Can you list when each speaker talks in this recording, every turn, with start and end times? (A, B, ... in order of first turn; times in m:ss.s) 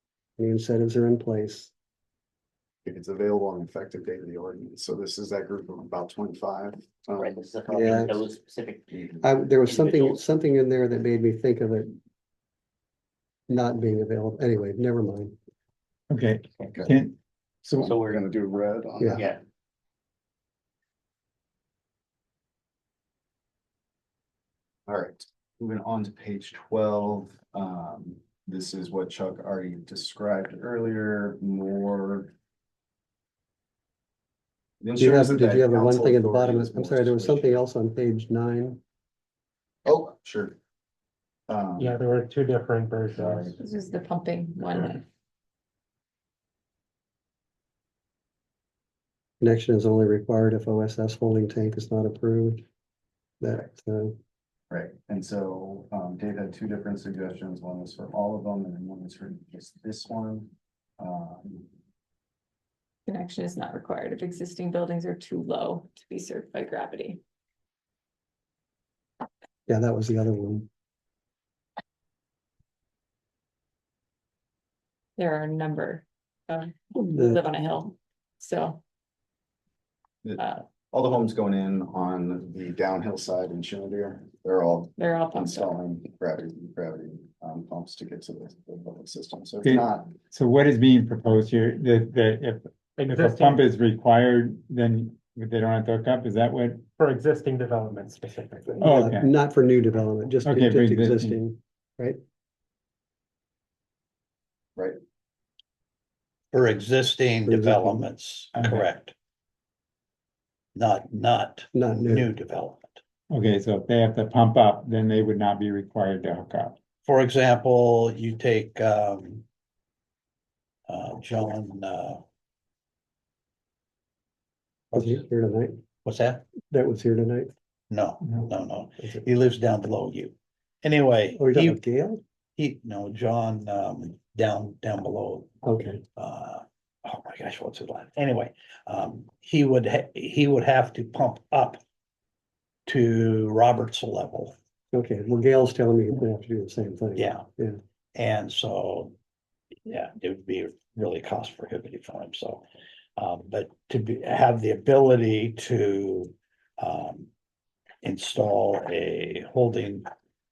0:00.4-0:01.7 A
0:02.8-0:08.1 B
0:07.2-0:08.8 C
0:07.7-0:08.2 A
0:08.9-0:09.2 B
0:09.2-0:12.0 A
0:09.6-0:10.2 C
0:13.5-0:15.4 A
0:16.1-0:17.9 D
0:17.6-0:19.4 B
0:17.8-0:18.2 C
0:24.9-0:32.3 B
0:34.8-0:37.6 B
0:35.0-0:38.8 A
0:39.8-0:40.6 B
0:41.5-0:42.0 B
0:41.8-0:43.5 E
0:43.1-0:43.6 B
0:43.5-0:45.0 F
0:49.4-0:52.6 A
0:53.4-0:54.2 A
0:54.7-1:01.7 B
1:03.1-1:07.2 F
1:09.7-1:10.7 A
1:15.2-1:18.8 F
1:17.0-1:17.4 A
1:20.2-1:30.1 B
1:20.4-1:20.6 F
1:25.0-1:25.8 F
1:29.6-1:36.8 D
1:33.0-1:33.6 E
1:37.0-1:38.8 E
1:38.8-1:42.2 A
1:38.8-1:39.3 D
1:40.4-1:41.4 D
1:46.5-1:49.1 G
1:47.5-1:48.1 A
1:48.5-1:48.8 D
1:50.7-1:53.0 G
1:51.7-1:52.3 A
1:53.3-1:56.8 D
1:57.0-1:59.4 G
2:00.9-2:02.2 G
2:04.9-2:05.8 A
2:06.0-2:06.4 G
2:06.7-2:07.5 A
2:07.9-2:11.8 G
2:09.0-2:09.2 A
2:11.4-2:12.2 A
2:12.6-2:21.8 G
2:15.6-2:16.0 A
2:22.8-2:24.6 G
2:24.9-2:27.8 A
2:27.2-2:27.4 G
2:28.1-2:29.1 G
2:29.8-2:32.6 G
2:33.2-2:37.3 G
2:38.0-2:40.1 G